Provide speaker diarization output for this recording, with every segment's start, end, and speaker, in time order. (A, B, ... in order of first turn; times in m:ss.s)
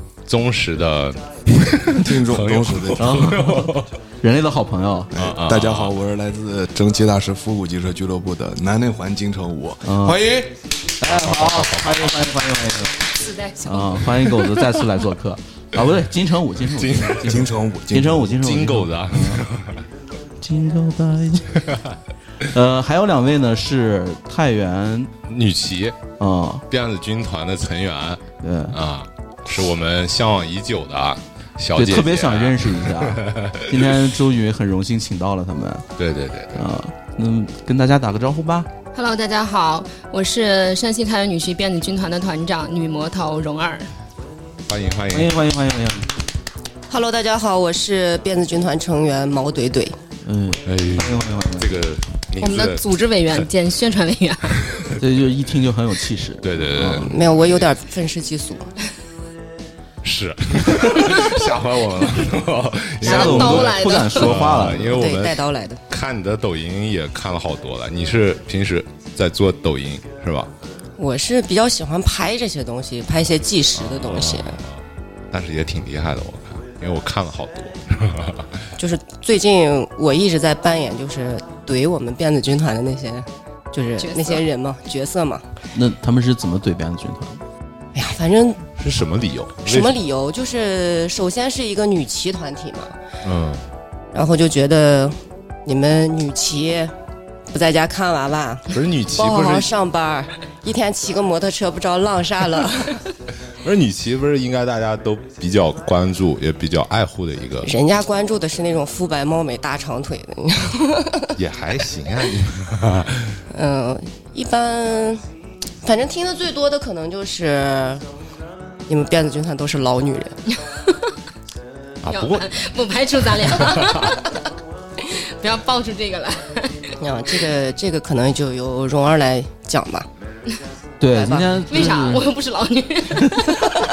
0:00.3-0:03.9 A
0:02.0-0:03.3 B
0:03.0-0:05.1 C
0:05.1-0:10.5 B
0:05.1-0:05.9 A
0:09.8-0:10.3 C
0:11.0-0:13.1 C
0:11.0-0:12.3 A
0:13.1-0:14.7 D
0:13.6-0:19.5 C
0:16.7-0:17.4 A
0:17.2-0:18.3 B
0:18.3-0:19.8 A
0:20.4-0:21.7 C
0:22.5-0:25.1 C
0:25.2-0:26.0 A
0:26.2-0:26.6 C
0:26.7-0:34.0 A
0:28.4-0:28.8 C
0:31.8-0:35.9 C
0:36.0-0:36.7 A
0:36.5-0:38.7 C
0:38.9-0:43.9 D
0:44.7-0:45.3 A
0:45.1-0:46.1 C
0:46.9-0:50.0 E
0:50.2-0:51.7 C
0:50.6-0:52.8 A
0:52.4-0:54.7 D
0:55.0-0:57.1 C
0:56.4-0:57.6 A
0:56.9-0:58.7 E
1:00.0-1:10.5 A
1:03.0-1:05.1 C
1:03.0-1:04.3 D
1:04.9-1:05.8 E
1:11.0-1:14.6 E
1:13.8-1:18.5 A
1:18.8-1:25.4 E
1:24.0-1:24.4 D
1:25.7-1:27.4 C
1:27.9-1:28.6 E
1:28.8-1:30.0 A
1:29.6-1:32.9 E
1:33.2-1:33.6 A
1:34.1-1:36.9 E
1:37.5-1:43.0 E
1:38.7-1:39.7 A
1:43.6-1:47.7 A
1:47.6-1:51.3 E
1:51.3-1:53.4 A
1:53.5-1:55.2 E
1:55.8-1:58.0 E
1:58.9-2:00.3 E
2:00.5-2:01.1 D
2:02.0-2:02.5 A
2:02.1-2:04.3 D
2:03.4-2:04.2 A
2:05.1-2:07.0 D
2:07.0-2:10.1 E
2:11.0-2:12.3 C
2:11.1-2:11.6 E
2:11.7-2:13.7 D